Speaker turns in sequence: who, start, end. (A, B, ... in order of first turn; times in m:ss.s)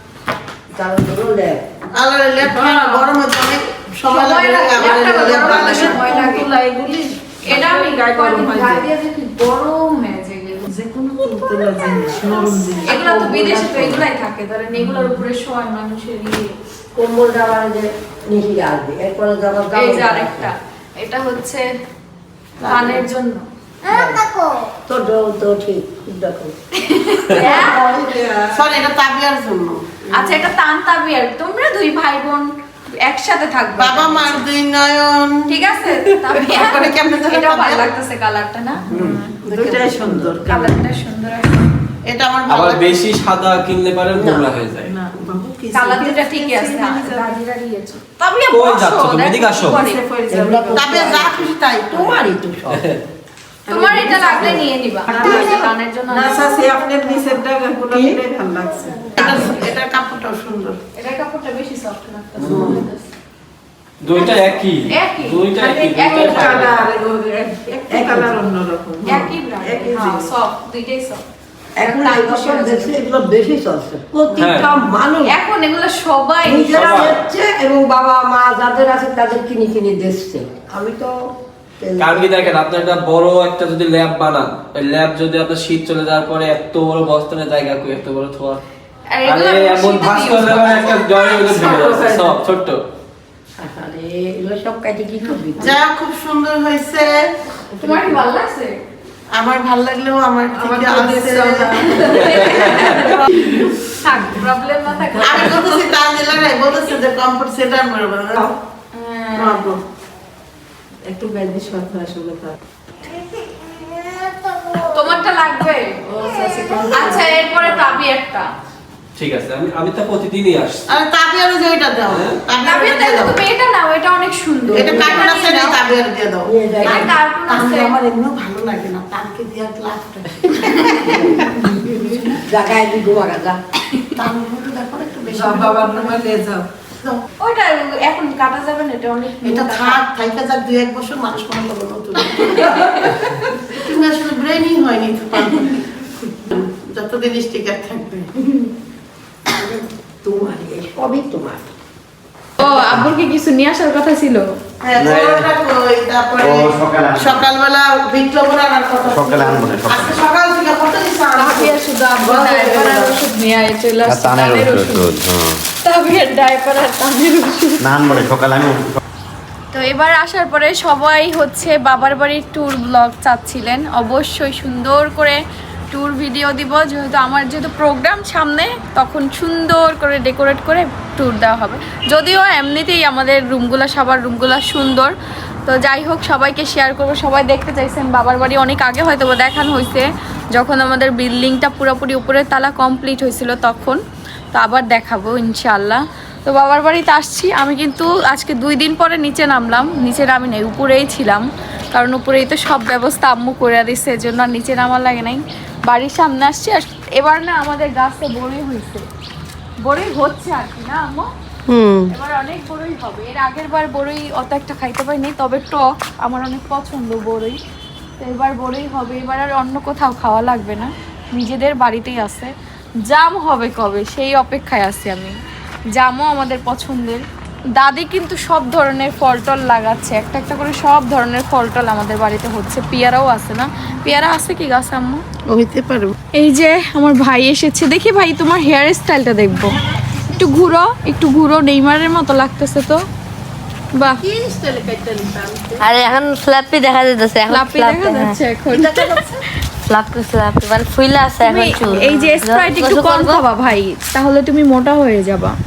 0:00.7-0:01.7 A
0:01.9-0:06.0 B
0:02.4-0:03.1 C
0:04.1-0:06.5 C
0:04.7-0:08.9 D
0:07.4-0:10.7 C
0:10.7-0:14.0 D
0:12.8-0:16.5 C
0:14.8-0:15.2 D
0:17.0-0:20.5 A
0:19.8-0:21.6 C
0:22.6-0:23.0 B
0:22.7-0:23.5 C
0:23.9-0:24.3 A
0:24.9-0:26.5 A
0:26.8-0:27.8 C
0:27.4-0:27.7 B
0:27.6-0:28.7 D
0:28.5-0:30.0 B
0:30.1-0:34.4 C
0:33.8-0:35.5 B
0:35.5-0:38.8 C
0:36.4-0:37.9 B
0:38.9-0:40.7 D
0:38.9-0:40.4 A
0:40.4-0:41.7 C
0:42.1-0:43.0 B
0:42.5-0:44.9 E
0:44.2-0:44.5 A
0:44.8-0:47.4 D
0:45.7-0:50.0 C
0:48.5-0:49.8 E
0:49.7-0:51.0 D
0:50.3-0:52.8 A
0:50.7-0:52.2 B
0:52.7-0:53.0 E
0:53.7-0:57.3 C
0:53.7-0:59.5 D
0:53.8-0:54.6 A
0:59.2-1:00.8 B
0:59.2-0:59.7 C
1:01.0-1:03.1 C
1:02.4-1:02.7 E
1:02.4-1:02.8 B
1:04.0-1:06.9 E
1:04.2-1:06.7 C
1:05.5-1:10.3 D
1:07.9-1:08.3 A
1:09.0-1:11.2 C
1:11.8-1:15.4 A
1:11.8-1:12.9 C
1:14.4-1:14.7 E
1:15.3-1:17.0 C
1:16.4-1:21.1 A
1:16.7-1:17.2 E
1:21.8-1:22.4 A
1:22.0-1:28.6 E
1:29.1-1:31.0 C
1:29.2-1:32.8 E
1:31.7-1:32.3 D
1:33.6-1:35.8 A
1:35.6-1:37.1 B
1:37.8-1:38.7 C
1:39.3-1:41.9 B
1:40.5-1:44.4 D
1:42.0-1:43.4 C
1:43.9-1:45.9 C
1:45.2-1:46.0 D
1:45.2-1:48.5 B
1:48.9-1:49.6 C
1:49.4-1:49.8 B
1:51.0-1:52.6 D
1:54.8-1:58.5 C
1:56.2-1:57.0 D
1:56.9-1:57.3 A
1:59.2-2:00.9 E
2:00.9-2:03.4 B
2:02.1-2:02.3 E
2:02.6-2:05.8 C
2:04.7-2:05.2 A
2:04.7-2:11.7 B
2:06.5-2:07.1 A
2:06.8-2:08.0 C
2:11.1-2:11.6 A
2:11.9-2:12.2 D
2:12.4-2:13.6 A
2:14.2-2:16.2 B
2:15.3-2:16.7 D
2:17.4-2:20.0 C
2:19.4-2:22.8 B
2:22.2-2:23.8 C
2:23.8-2:25.8 B
2:26.4-2:28.3 B
2:29.5-2:31.7 A
2:32.6-2:34.5 C
2:34.8-2:43.2 B
2:35.0-2:35.5 F
2:36.4-2:37.5 F
2:39.1-2:40.2 F
2:41.4-2:45.2 C
2:44.1-2:45.6 F
2:45.8-2:47.9 C
2:47.8-2:49.0 F
2:49.7-3:05.1 C
3:05.7-3:14.0 C
3:14.5-3:29.1 C
3:29.8-3:31.3 C
3:31.7-3:32.1 B
3:32.1-3:37.6 C
3:38.2-3:42.5 C
3:43.1-3:45.4 C
3:45.9-3:47.2 C
3:47.8-3:55.2 C
3:55.5-3:56.1 B
3:56.4-4:03.0 C
4:04.0-4:04.2 C
4:04.2-4:05.9 D
4:05.8-4:08.4 G
4:07.5-4:09.2 C
4:09.9-4:13.4 G
4:11.4-4:15.6 C